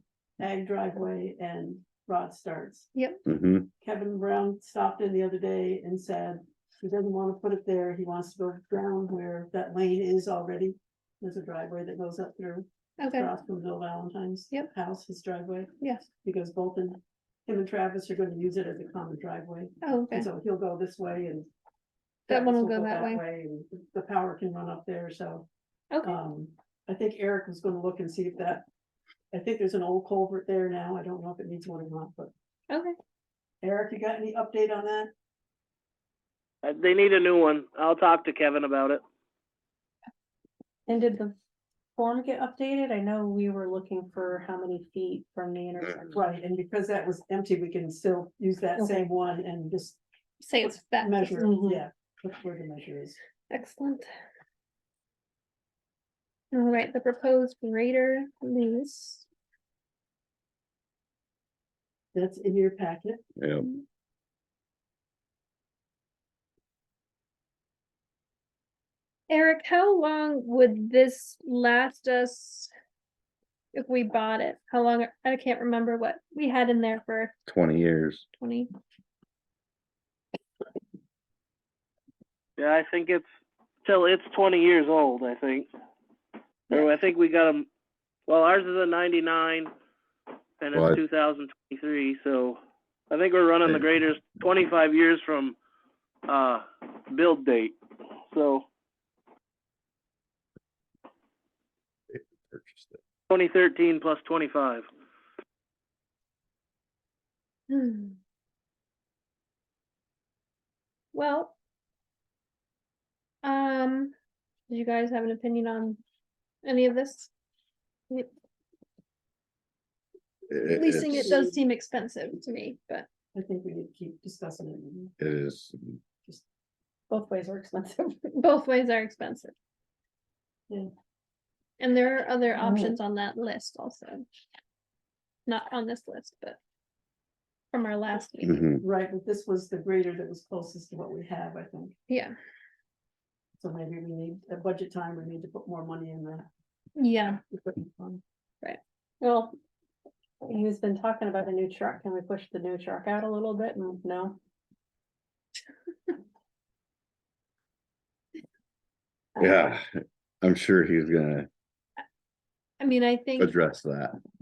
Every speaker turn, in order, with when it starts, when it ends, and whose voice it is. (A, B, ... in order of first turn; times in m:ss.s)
0:00.4-0:02.9 A
0:03.2-0:03.7 B
0:03.8-0:21.5 A
0:13.0-0:13.3 C
0:15.8-0:16.0 C
0:19.8-0:20.3 C
0:22.3-0:23.2 C
0:22.3-0:25.5 A
0:25.9-0:26.2 C
0:26.0-0:28.6 A
0:29.3-0:32.3 A
0:32.7-0:32.9 C
0:33.6-0:35.1 A
0:36.7-0:39.0 D
0:40.9-0:41.4 E
0:42.0-0:46.2 E
0:46.1-0:50.0 A
0:48.8-0:49.1 E
0:50.4-0:51.6 C
0:50.6-0:53.2 A
0:51.4-0:51.8 E
0:53.5-0:54.1 C
0:56.5-0:59.2 C
1:02.1-1:03.2 A
1:03.4-1:03.7 B
1:09.3-1:12.7 C
1:13.7-1:17.4 C
1:17.5-1:18.2 B
1:18.4-1:18.7 C
1:22.6-1:23.2 D
1:23.8-1:25.7 D
1:26.8-1:27.7 D
1:28.3-1:29.7 D
1:30.6-1:32.6 D
1:30.7-1:31.0 B
1:33.1-1:35.5 D
1:36.3-1:37.8 D
1:38.3-1:38.6 D
1:42.1-1:43.0 B
1:43.3-1:44.8 D
1:47.7-1:48.2 C
1:51.1-1:51.5 C
1:53.4-1:54.1 C
1:54.7-1:56.0 C
1:56.6-1:57.3 C
2:00.5-2:01.3 B
2:00.8-2:03.1 C
2:01.1-2:01.6 A
2:03.3-2:05.1 A
2:05.2-2:06.0 B
2:07.1-2:08.4 E
2:08.4-2:09.5 C
2:11.8-2:14.2 C
2:12.6-2:12.9 E
2:15.5-2:16.6 C
2:17.7-2:18.6 C
2:18.4-2:18.8 B
2:18.8-2:22.0 A
2:22.1-2:22.3 C
2:23.6-2:26.5 A
2:27.0-2:27.4 C
2:27.4-2:28.2 A
2:29.2-2:29.6 E
2:30.4-2:34.4 E
2:39.4-2:39.9 B
2:40.4-2:41.5 B
2:42.8-2:43.5 C
2:43.4-2:44.2 B